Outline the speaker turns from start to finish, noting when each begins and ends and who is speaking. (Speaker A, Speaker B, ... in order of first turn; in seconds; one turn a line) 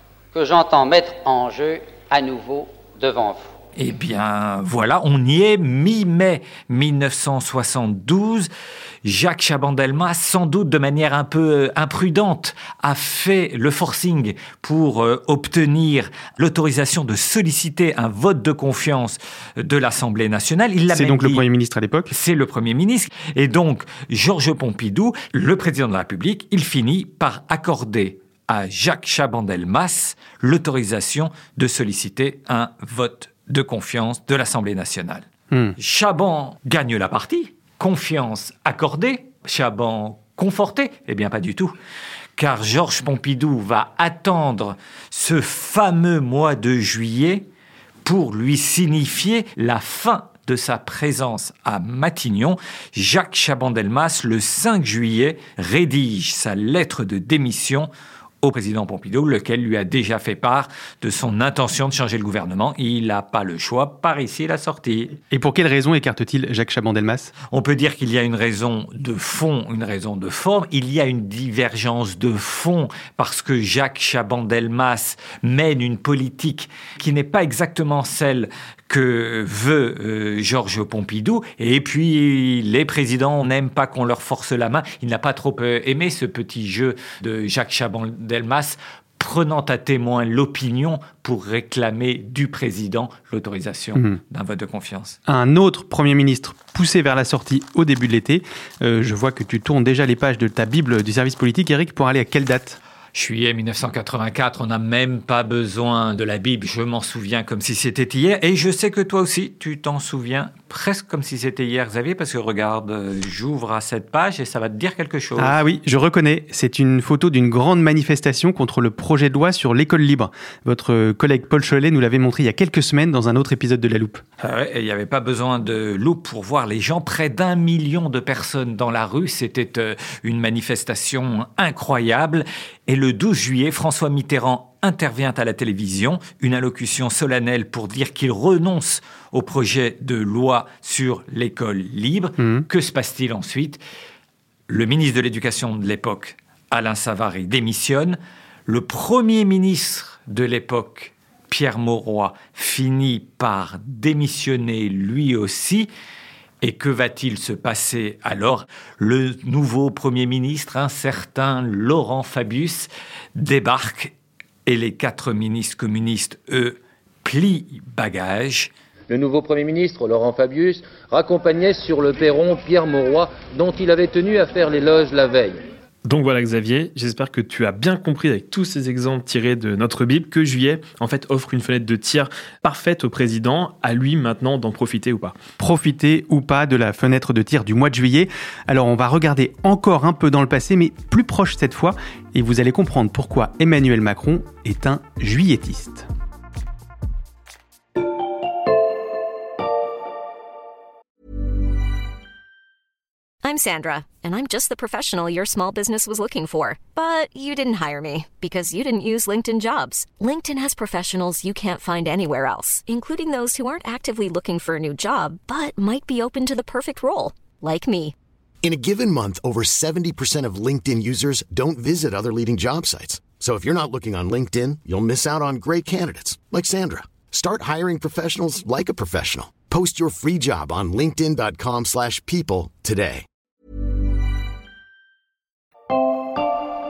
Speaker A: 0.3-3.5
Speaker B: 3.8-8.5
Speaker B: 9.0-21.4
Speaker C: 20.9-22.1
Speaker B: 22.1-41.7
Speaker B: 42.4-47.5
Speaker B: 48.0-57.9
Speaker B: 58.4-65.1
Speaker C: 65.3-67.3
Speaker B: 67.5-95.2
Speaker C: 95.3-102.8
Speaker B: 103.1-115.5
Speaker C: 115.4-124.2
Speaker B: 124.4-143.8
Speaker C: 142.4-142.7
Speaker B: 144.7-155.9
Speaker B: 156.6-164.1
Speaker B: 164.7-168.7
Speaker D: 169.1-175.6
Speaker E: 176.1-185.3
Speaker C: 185.6-196.1
Speaker F: 203.4-218.1
Speaker G: 218.6-233.2